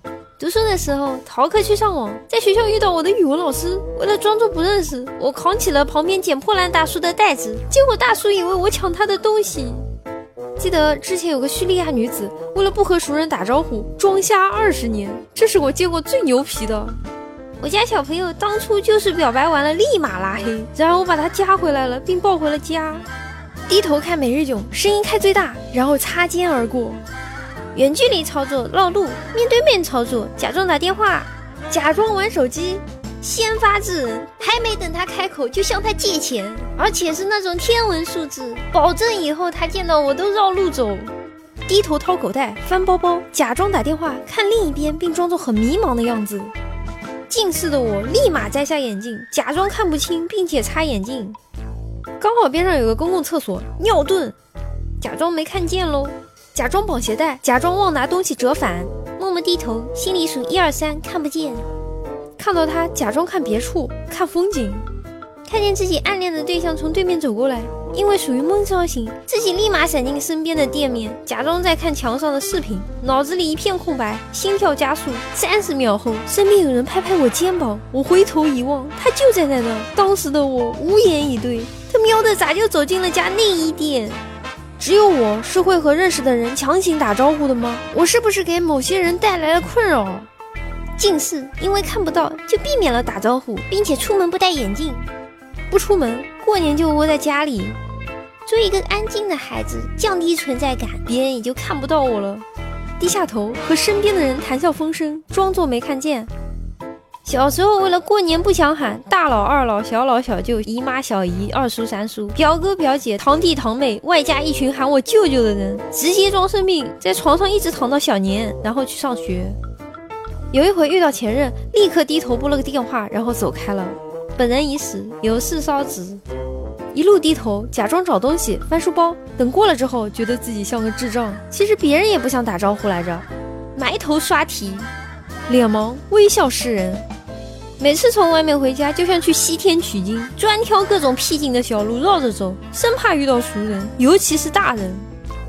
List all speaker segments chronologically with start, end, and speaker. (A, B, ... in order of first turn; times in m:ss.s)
0:00.4-0:09.9 A
0:10.6-0:17.0 A
0:17.6-0:23.0 A
0:23.7-0:27.0 A
0:27.7-0:41.1 A
0:41.7-0:46.5 A
0:47.3-0:51.4 A
0:52.2-0:54.4 A
0:55.0-1:01.7 A
1:02.4-1:04.9 A
1:05.4-1:24.2 A
1:24.8-1:30.3 A
1:31.0-1:35.1 A
1:35.7-1:37.8 A
1:38.4-1:42.4 A
1:43.0-1:46.3 A
1:47.2-1:59.6 A
2:00.5-2:06.2 A
2:06.9-2:14.9 A
2:15.5-2:17.0 A
2:17.8-2:25.1 A